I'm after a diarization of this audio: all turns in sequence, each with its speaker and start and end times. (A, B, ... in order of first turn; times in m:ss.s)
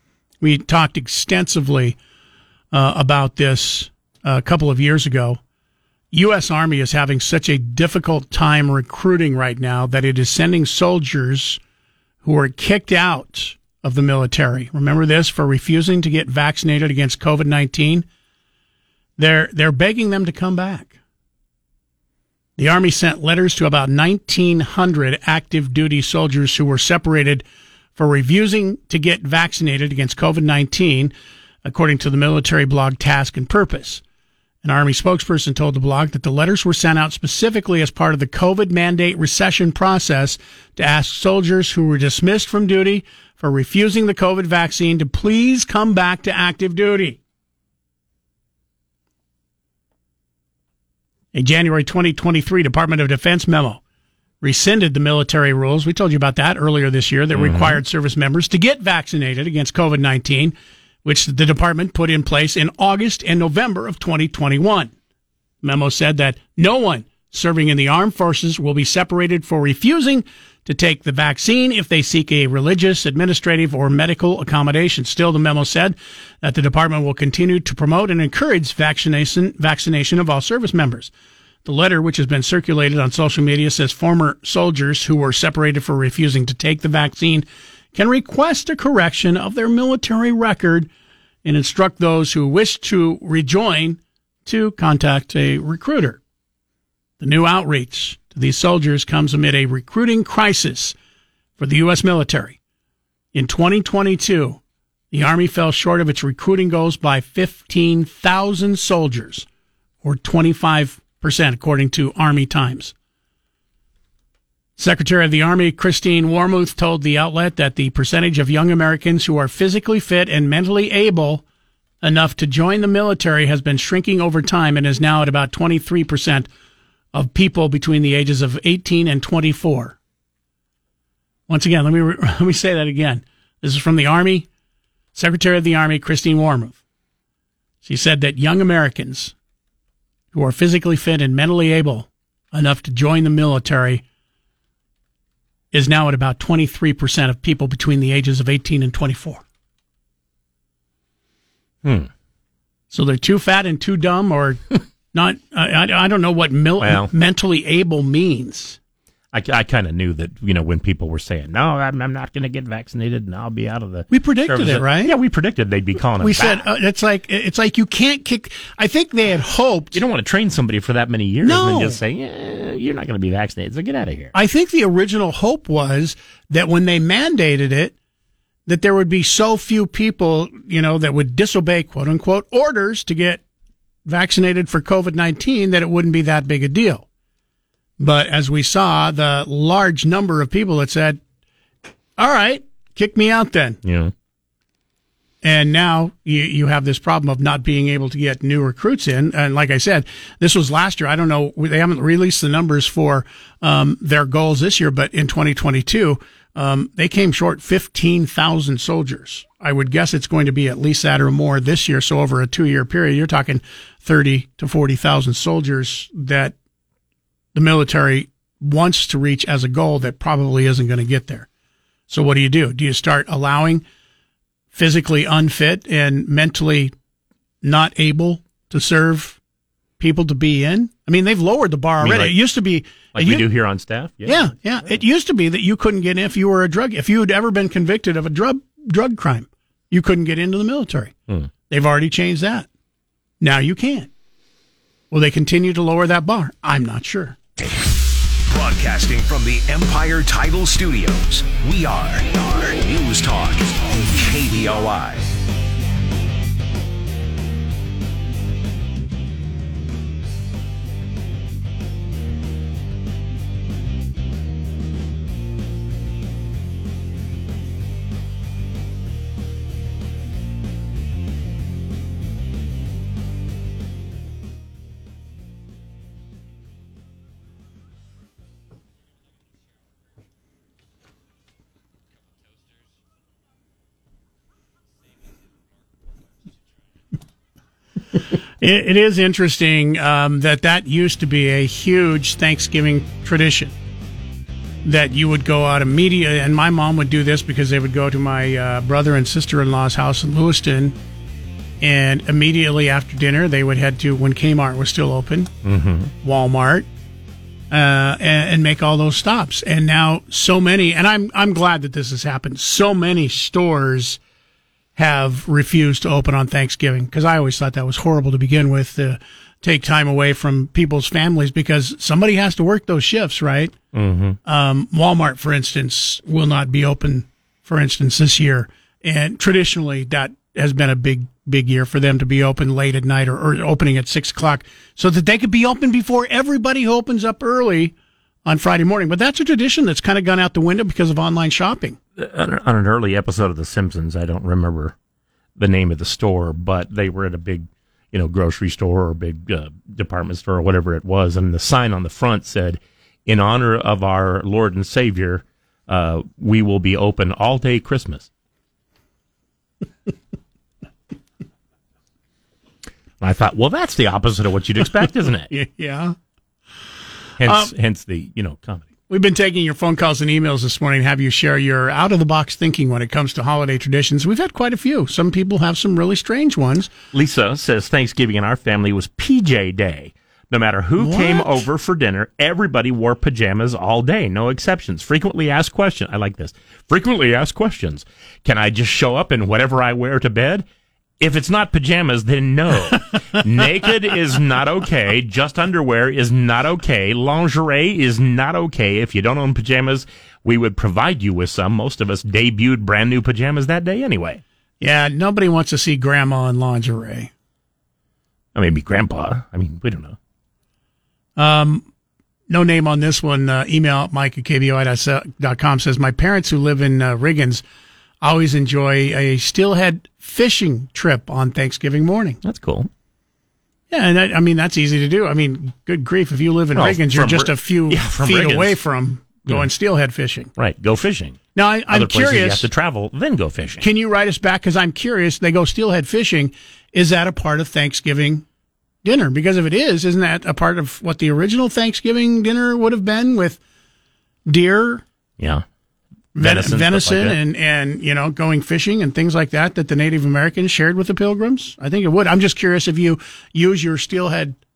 0:00.4-0:02.0 A
0:02.7-0:05.4 A
0:06.1-0:11.6 A
0:12.2-0:18.0 A
0:19.2-0:21.0 A
0:22.6-0:27.4 A
0:28.0-0:31.1 A
0:31.6-0:34.0 A
0:34.6-0:47.2 A
0:51.3-0:53.8 A
0:54.4-1:04.9 A
0:57.3-0:57.8 B
1:05.6-1:21.1 A
1:21.6-1:30.9 A
1:31.4-1:36.2 A
1:37.2-1:41.0 A
1:41.6-1:42.6 A
1:43.3-1:44.6 A
1:45.1-1:49.5 A
1:50.0-1:52.9 A
1:54.8-2:01.4 A
2:02.0-2:06.5 A
2:07.1-2:10.0 A
2:11.5-2:14.5 A
2:15.1-2:16.8 A
2:17.8-2:19.3 A
2:20.3-2:24.0 A
2:25.7-2:29.4 A
2:31.8-2:32.1 B
2:32.9-2:34.6 A
2:35.1-2:38.8 A
2:36.8-2:37.1 B
2:39.3-2:46.7 B
2:44.1-2:45.1 A
2:46.2-2:50.0 A
2:49.9-2:54.3 B
2:51.4-2:52.0 A
2:54.3-2:57.9 A
2:58.7-3:03.4 A
3:04.0-3:07.0 A
3:08.0-3:11.2 A
3:12.2-3:13.8 A
3:13.8-3:14.1 B
3:15.4-3:36.6 A
3:37.5-3:41.5 A
3:42.1-3:43.8 A
3:44.7-3:46.9 A
3:47.6-3:49.4 A
3:50.0-3:53.4 A
3:52.0-3:52.3 B
3:53.1-3:54.5 B
3:54.2-4:01.1 A
4:01.7-4:02.7 A
4:03.4-4:04.1 A
4:05.1-4:07.4 A
4:08.5-4:15.3 C
4:48.6-4:53.7 A
4:54.8-5:01.0 A
5:01.8-5:05.5 A
5:05.6-5:06.1 B
5:06.2-5:06.9 A
5:07.7-5:14.2 A
5:15.0-5:23.8 A
5:23.9-5:24.4 B
5:24.4-5:37.9 A
5:38.4-5:42.0 A
5:42.2-5:45.0 B
5:45.6-5:58.3 B
6:03.2-6:05.5 B
6:05.5-6:06.2 A
6:07.4-6:08.9 B
6:07.4-6:07.7 A
6:09.1-6:16.9 A
6:17.1-6:30.6 B
6:21.0-6:21.6 A
6:31.2-6:44.4 B
6:44.8-6:47.3 A
6:48.5-6:50.2 B
6:51.4-6:51.9 A
6:52.5-6:57.6 A
6:58.2-7:02.4 A
7:02.4-7:02.9 B
7:03.9-7:10.5 A
7:06.7-7:08.8 B
7:10.6-7:13.8 B
7:11.5-7:12.6 A
7:13.8-7:18.4 A
7:19.0-7:23.6 A
7:24.5-7:25.0 A
7:25.4-7:25.6 B
7:26.3-7:34.6 A
7:26.4-7:27.4 B